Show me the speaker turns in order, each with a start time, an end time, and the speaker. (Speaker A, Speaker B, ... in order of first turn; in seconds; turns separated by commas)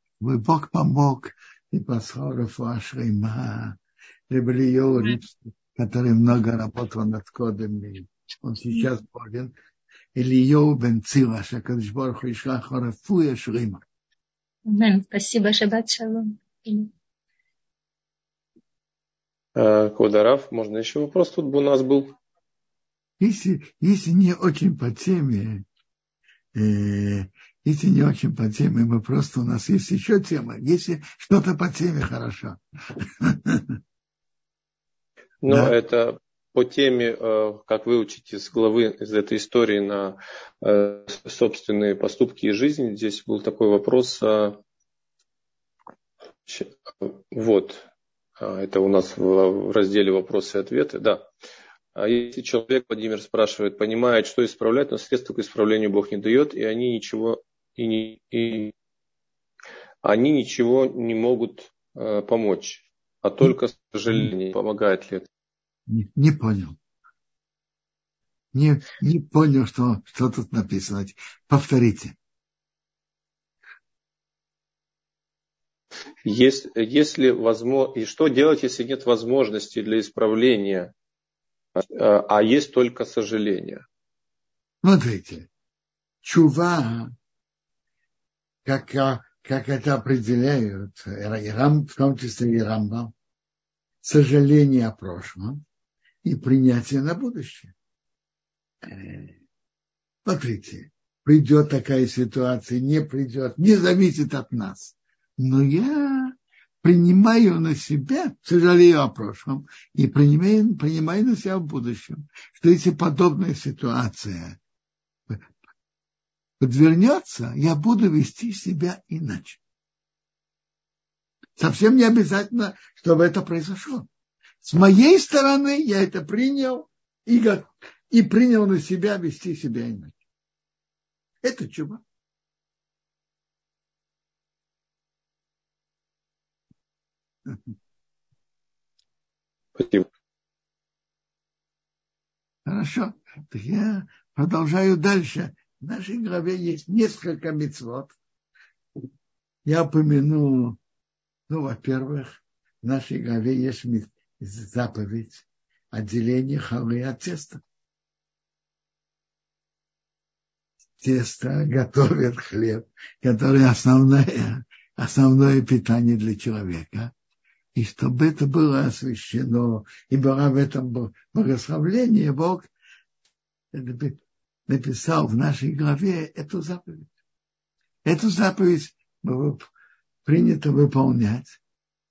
Speaker A: 0.2-3.8, Speaker A: 4.3-9.6, Speaker A: 10.2-13.8, Speaker B: 14.7-16.9, Speaker C: 19.6-22.1, Speaker A: 23.2-25.6, Speaker A: 26.6-33.8, Speaker C: 35.4-44.6, Speaker A: 35.5-35.7, Speaker C: 46.5-47.9, Speaker C: 48.4-51.3, Speaker C: 52.0-58.7, Speaker C: 60.0-65.3, Speaker A: 65.9-66.8, Speaker A: 68.5-72.2, Speaker C: 76.2-80.9, Speaker C: 81.8-83.8, Speaker A: 84.8-85.5, Speaker A: 86.2-87.1, Speaker A: 88.7-93.1, Speaker A: 94.0-95.6, Speaker A: 96.2-97.7, Speaker A: 98.8-99.4, Speaker A: 100.2-114.6, Speaker A: 116.6-119.6, Speaker A: 121.6-124.1, Speaker A: 124.6-130.2, Speaker A: 131.4-132.0, Speaker C: 139.8-140.1, Speaker A: 142.7-148.2, Speaker A: 149.7-150.8, Speaker A: 151.5-157.6, Speaker A: 161.0-167.1, Speaker A: 167.8-172.7, Speaker A: 173.7-177.1, Speaker A: 178.1-179.7, Speaker A: 180.2-181.6